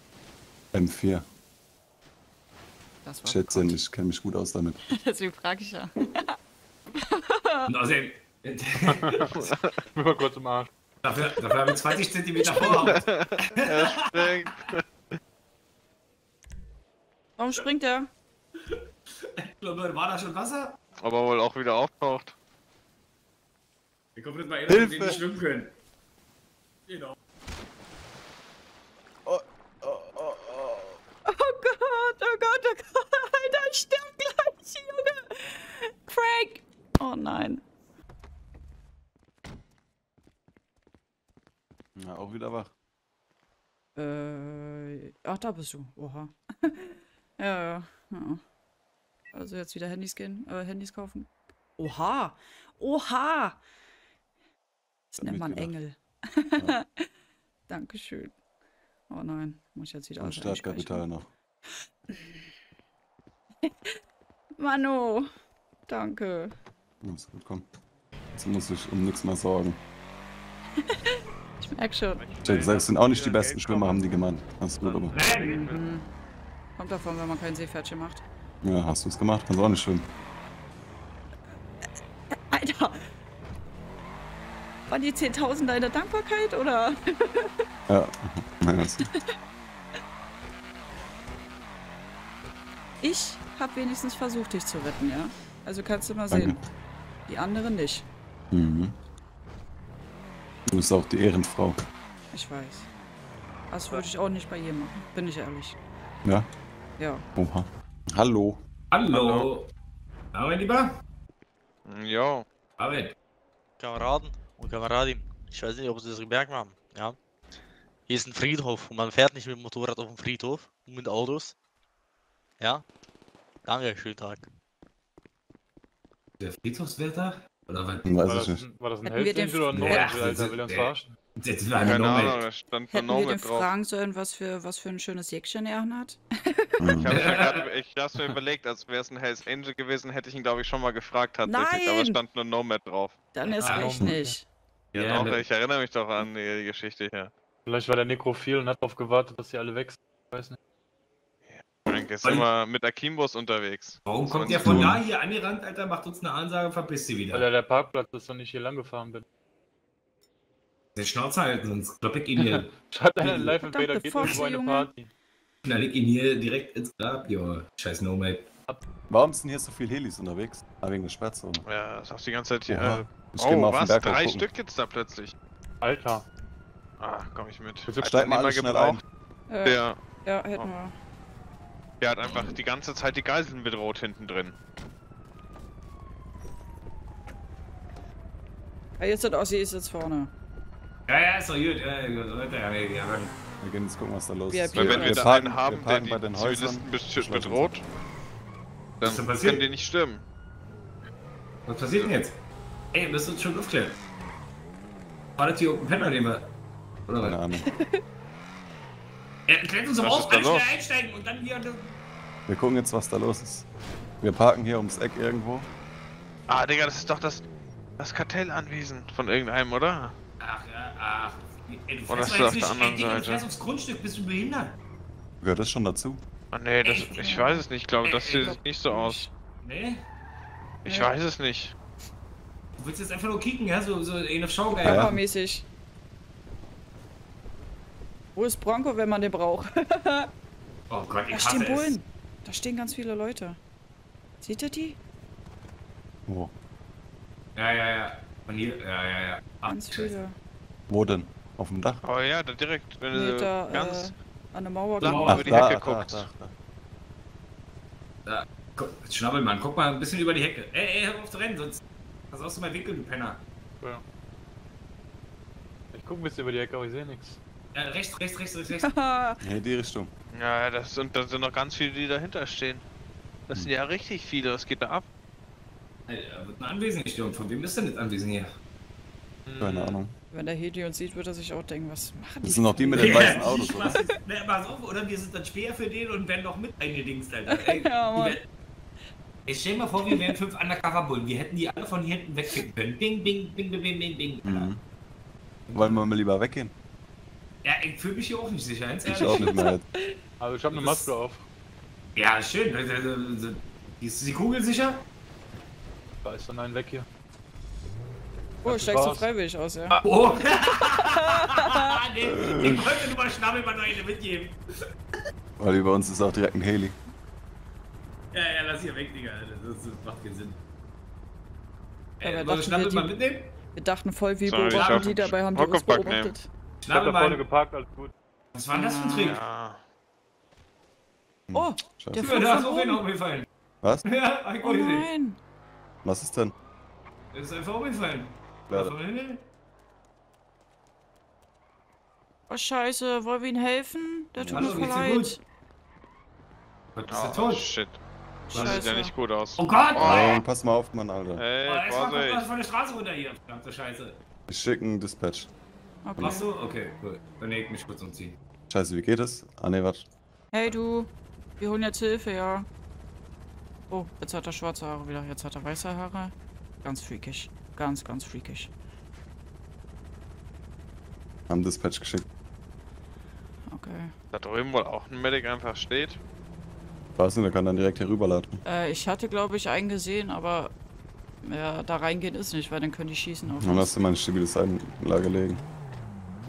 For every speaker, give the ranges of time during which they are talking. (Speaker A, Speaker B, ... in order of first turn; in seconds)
Speaker A: 0.7-1.2, 3.3-4.8, 24.7-25.2, 29.2-31.0, 42.0-42.7, 55.2-55.8, 60.2-61.3, 67.0-67.7, 68.4-69.8, 72.4-75.2, 78.6-80.1, 87.9-89.0, 96.3-96.6, 98.5-99.0, 100.7-101.8, 107.3-108.6, 128.1-128.6, 136.8-137.2, 154.6-155.0, 169.1-171.6, 172.7-174.4, 178.0-179.0, 193.6-197.8, 207.2-207.7, 212.5-213.7, 214.2-215.7, 225.4-226.2, 234.8-235.2, 246.3-246.5, 250.9-252.0, 255.2-256.5, 269.4-270.1, 279.6-280.1, 282.4-284.0, 294.4-294.8, 295.7-296.7, 299.1-299.8, 312.2-312.9, 315.6-317.0, 331.5-332.3, 336.0-336.5, 338.7-338.9, 344.4-345.0, 350.0-351.4, 354.5-355.5, 358.7-360.1, 371.5-372.2, 377.2-378.6, 383.6-385.6
Speaker B: 3.0-3.8, 4.9-6.3, 7.0-7.7, 17.4-18.1, 31.3-37.6, 44.0-48.4, 49.3-53.6, 55.1-57.0, 57.7-58.3, 59.1-61.1, 62.1-62.4, 63.7-64.0, 64.6-65.3, 65.9-66.5, 70.9-72.3, 75.3-76.1, 76.8-78.2, 82.5-83.0, 84.9-87.5, 93.0-96.6, 97.3-98.1, 102.3-102.9, 103.7-105.8, 107.0-107.3, 129.0-130.1, 132.9-136.8, 141.4-142.2, 143.3-144.5, 163.3-164.9, 179.5-180.9, 189.0-190.3, 194.5-195.3, 207.7-208.0, 226.8-227.7, 228.4-229.3, 230.9-231.1, 234.7-235.7, 238.3-240.3, 241.3-243.6, 244.4-245.0, 249.7-250.3, 253.1-255.5, 268.7-269.4, 280.3-284.1, 287.5-288.4, 299.4-300.2, 308.6-310.0, 311.3-311.9, 322.2-323.1, 323.8-326.5, 328.7-329.4, 331.5-333.0, 334.6-335.4, 342.5-345.4, 348.5-349.1, 356.1-356.5, 360.5-362.7, 363.9-368.7, 373.7-374.1, 378.6-380.7, 381.4-383.9
Speaker C: 7.7-9.2, 11.0-14.5, 18.6-20.8, 24.2-25.7, 26.9-27.2, 75.1-75.8, 108.9-109.7, 110.3-111.0, 112.8-113.1, 126.4-128.1, 129.9-132.4, 137.1-137.7, 144.9-145.4, 152.2-152.5, 154.1-157.5, 161.0-162.8, 165.7-168.5, 182.3-182.6, 191.1-193.3, 199.0-199.7, 201.7-202.4, 202.9-204.0, 205.4-206.5, 207.1-207.4, 209.5-212.0, 220.4-224.8, 228.0-228.6, 229.6-230.0, 232.8-235.2, 240.9-242.0, 247.6-250.1, 255.1-255.4, 258.3-263.4, 267.7-268.9, 276.1-278.5, 282.9-288.5, 289.5-294.7, 297.6-299.5, 300.7-301.1, 302.1-305.0, 310.0-314.6, 318.3-320.6, 322.2-323.5, 326.8-327.4, 328.5-329.4, 332.2-333.5, 334.1-335.1, 337.3-339.4, 344.5-345.4, 346.9-347.7, 349.6-350.2, 351.6-354.2, 356.2-358.4
Speaker D: 9.4-9.8, 12.5-14.8, 21.0-22.4, 74.9-75.8, 109.1-109.5, 111.9-112.5, 131.8-133.7, 137.0-143.2, 144.9-147.3, 151.5-154.8, 171.7-175.3, 177.0-179.0, 179.6-180.0, 182.0-184.6, 194.7-197.8, 199.0-200.2, 210.0-210.8, 216.5-217.4, 218.0-220.1, 222.1-223.5, 226.5-229.2, 230.8-231.7, 252.0-254.1, 255.0-256.3, 270.3-272.8, 273.5-275.1, 279.5-280.0, 324.5-326.3, 329.2-329.8, 347.1-350.4, 351.4-352.5, 374.3-376.2
Speaker E: 9.9-10.7, 128.2-131.2, 143.5-144.4, 147.7-150.6, 157.3-159.2, 162.4-165.1, 175.8-176.3, 177.9-178.3, 265.9-267.4, 300.4-301.5, 306.2-307.1, 308.6-309.3, 326.9-328.1
Speaker F: 113.8-117.2, 118.1-121.5, 123.7-124.5